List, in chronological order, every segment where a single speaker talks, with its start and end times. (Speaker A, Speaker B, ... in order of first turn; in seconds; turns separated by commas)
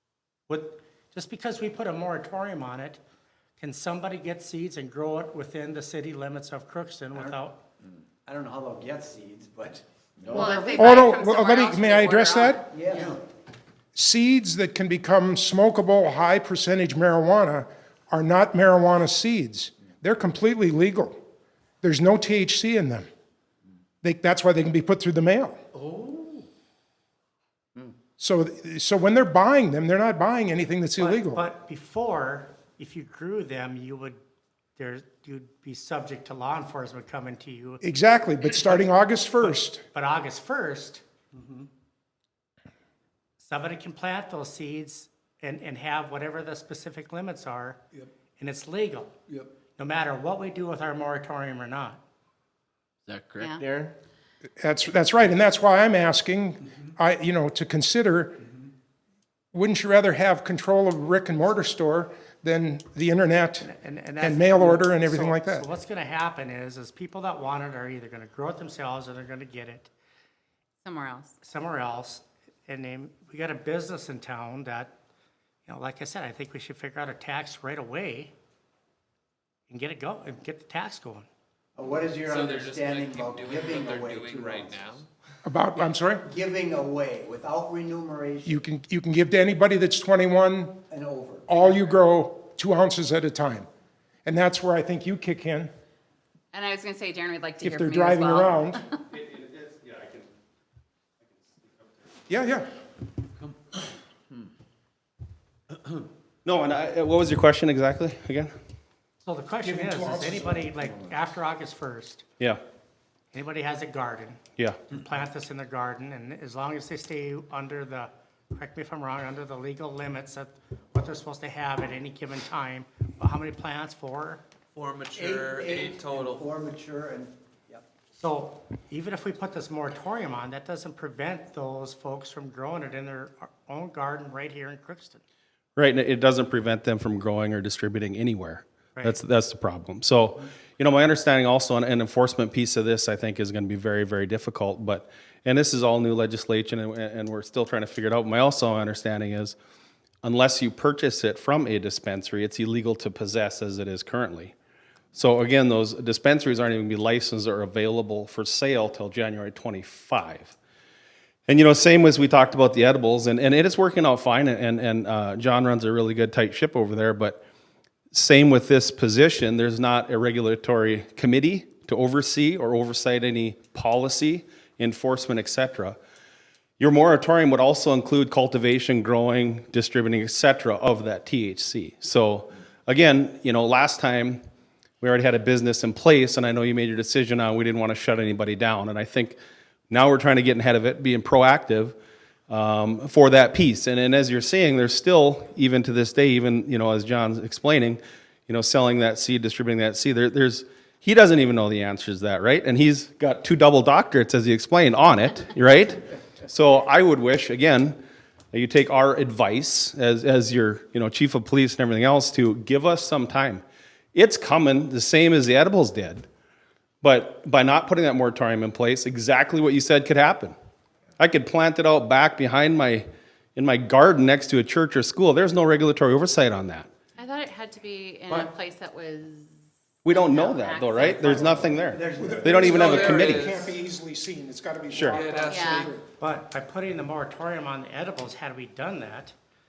Speaker A: 0.5-3.0, Speaker A: 3.6-7.6, Speaker B: 8.2-11.0, Speaker C: 10.3-13.2, Speaker D: 10.7-12.6, Speaker B: 12.7-13.2, Speaker D: 13.9-21.2, Speaker D: 21.8-23.1, Speaker D: 24.0-25.6, Speaker D: 28.2-31.4, Speaker A: 31.0-34.2, Speaker A: 34.8-37.8, Speaker D: 37.8-39.8, Speaker A: 39.4-41.7, Speaker A: 43.4-47.8, Speaker A: 48.4-49.1, Speaker A: 49.8-52.0, Speaker C: 53.3-53.6, Speaker B: 53.6-53.9, Speaker D: 54.6-58.4, Speaker D: 59.5-63.7, Speaker A: 63.6-69.9, Speaker D: 64.2-65.7, Speaker C: 70.8-71.3, Speaker A: 71.4-74.9, Speaker A: 75.7-78.3, Speaker A: 79.7-81.3, Speaker B: 81.8-84.9, Speaker E: 82.2-85.1, Speaker D: 85.4-86.3, Speaker B: 86.2-88.6, Speaker D: 88.5-90.8, Speaker B: 90.9-91.9, Speaker D: 91.5-93.7, Speaker D: 94.2-95.7, Speaker C: 96.5-98.9, Speaker D: 97.6-98.8, Speaker F: 99.1-100.3, Speaker F: 101.2-102.0, Speaker D: 102.3-102.7, Speaker F: 106.4-108.5, Speaker A: 109.2-112.2, Speaker D: 109.6-110.7, Speaker A: 113.3-124.4, Speaker F: 114.6-114.8, Speaker E: 124.7-126.5, Speaker B: 125.1-127.8, Speaker A: 128.2-135.2, Speaker F: 135.8-149.6, Speaker F: 150.2-154.5, Speaker F: 155.1-160.5, Speaker F: 161.5-167.4, Speaker F: 168.1-176.0, Speaker F: 176.8-184.4, Speaker F: 185.0-189.4, Speaker F: 189.9-192.0, Speaker F: 192.5-208.0, Speaker F: 208.5-213.6, Speaker F: 214.1-216.2, Speaker F: 217.0-220.5, Speaker F: 221.2-226.9, Speaker C: 227.2-229.5, Speaker F: 230.0-233.6, Speaker C: 230.1-231.6, Speaker B: 231.1-233.1, Speaker D: 232.2-236.0, Speaker E: 232.7-233.7, Speaker F: 234.9-235.3, Speaker E: 235.1-235.9, Speaker C: 235.5-235.9, Speaker A: 236.2-239.3